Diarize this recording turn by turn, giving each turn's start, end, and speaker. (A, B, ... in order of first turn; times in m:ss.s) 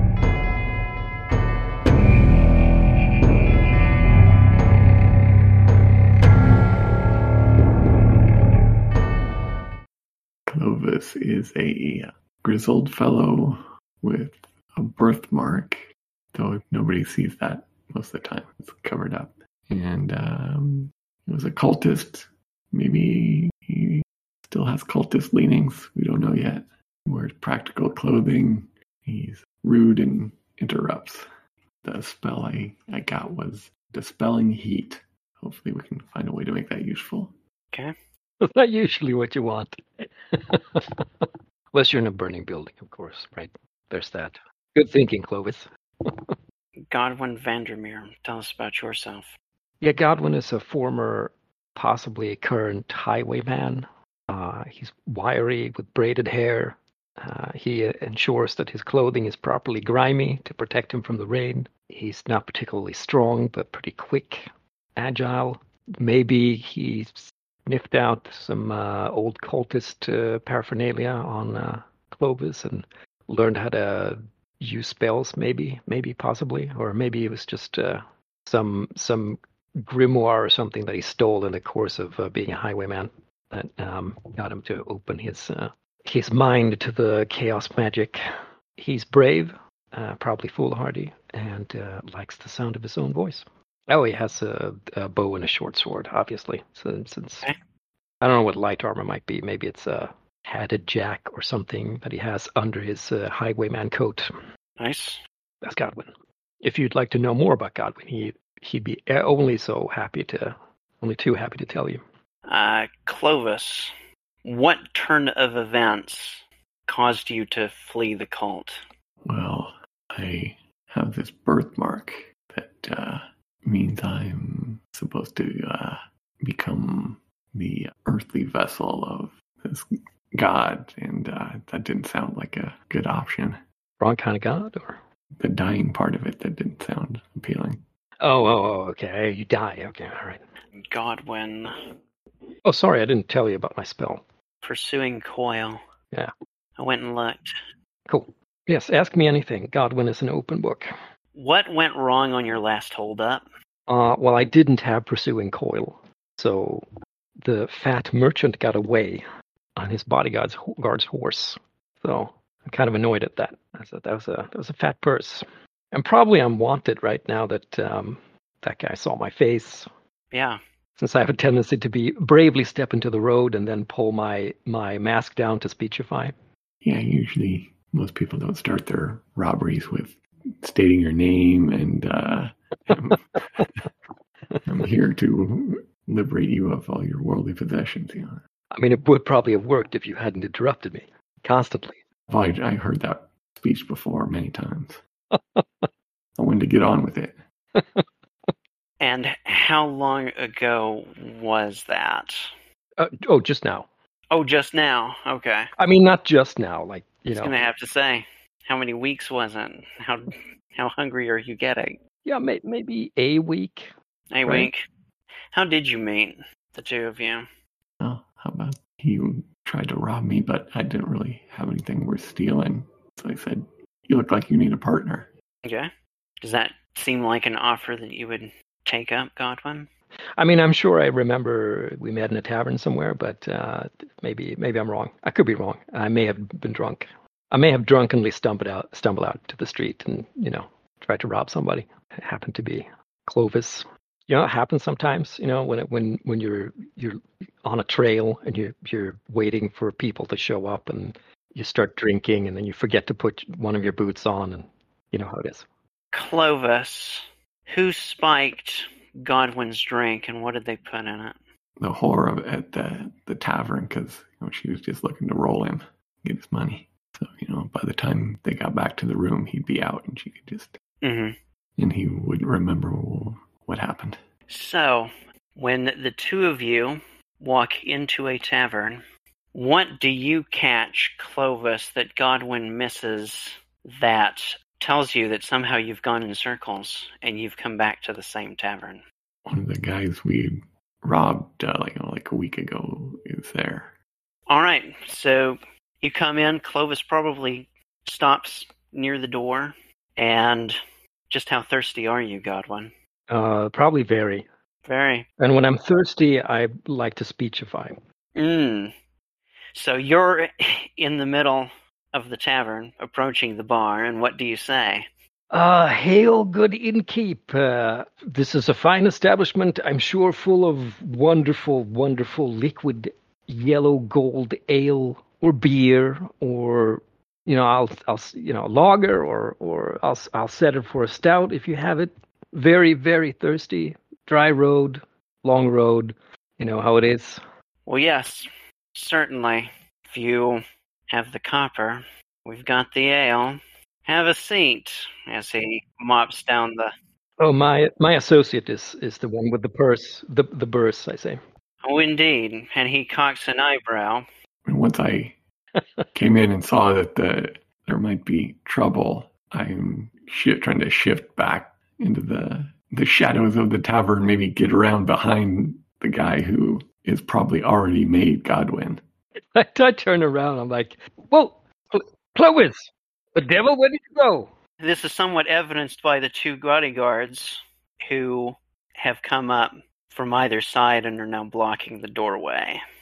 0:10.5-0:31.3 A
0:31.8-0:37.3 A
0:38.4-0:46.4 B
0:46.9-0:49.3 C
0:49.8-1:28.2 B
1:28.8-1:37.5 B
1:38.2-1:44.3 B
1:44.8-1:45.2 C
1:45.6-1:52.0 B
1:52.5-1:53.9 C
1:54.4-1:58.8 C
1:59.2-2:13.6 A
2:14.0-2:15.0 B
2:15.4-2:17.8 A
2:18.2-2:20.4 B
2:20.8-2:21.7 C
2:22.6-2:24.2 B
2:24.6-2:25.8 C
2:26.8-2:27.4 C
2:28.1-2:30.9 B
2:31.4-2:33.4 C
2:33.9-2:36.9 B
2:37.4-2:39.2 B
2:39.8-2:49.9 B
2:50.3-2:50.6 C
2:51.0-2:56.3 B
2:56.8-3:03.8 A
3:03.4-3:03.6 B
3:04.6-3:08.4 A
3:08.7-3:12.0 B
3:12.3-3:15.0 A
3:15.3-3:15.9 B
3:16.4-3:17.4 A
3:17.8-3:18.5 B
3:19.0-3:22.4 C
3:23.0-3:23.9 B
3:24.3-3:25.7 C
3:25.8-3:27.5 B
3:27.4-3:32.0 C
3:32.2-3:33.9 B
3:34.3-3:34.8 C
3:34.4-3:34.7 B
3:35.5-3:37.5 C
3:38.0-3:45.3 A
3:45.6-3:45.9 C
3:46.4-3:49.9 C
3:50.4-4:15.7 B
4:16.1-4:21.4 C
4:21.8-4:30.8 A
4:31.0-4:31.4 C
4:31.8-4:34.2 A
4:34.5-4:39.0 C
4:39.5-4:49.0 C
4:49.5-4:54.0 A
4:54.5-5:00.8 C
5:01.3-5:02.9 C
5:03.3-5:04.5 B
5:04.9-5:05.3 C
5:05.4-5:08.0 B
5:08.4-5:08.9 C
5:09.8-5:15.1 C
5:15.5-5:37.4 B
5:37.9-5:46.9 C
5:47.4-5:51.4 B
5:51.8-5:54.3 C
5:54.7-5:55.4 A
5:55.8-5:56.1 B
5:56.2-6:09.0 A
6:09.4-6:14.5 B
6:14.8-6:22.8 C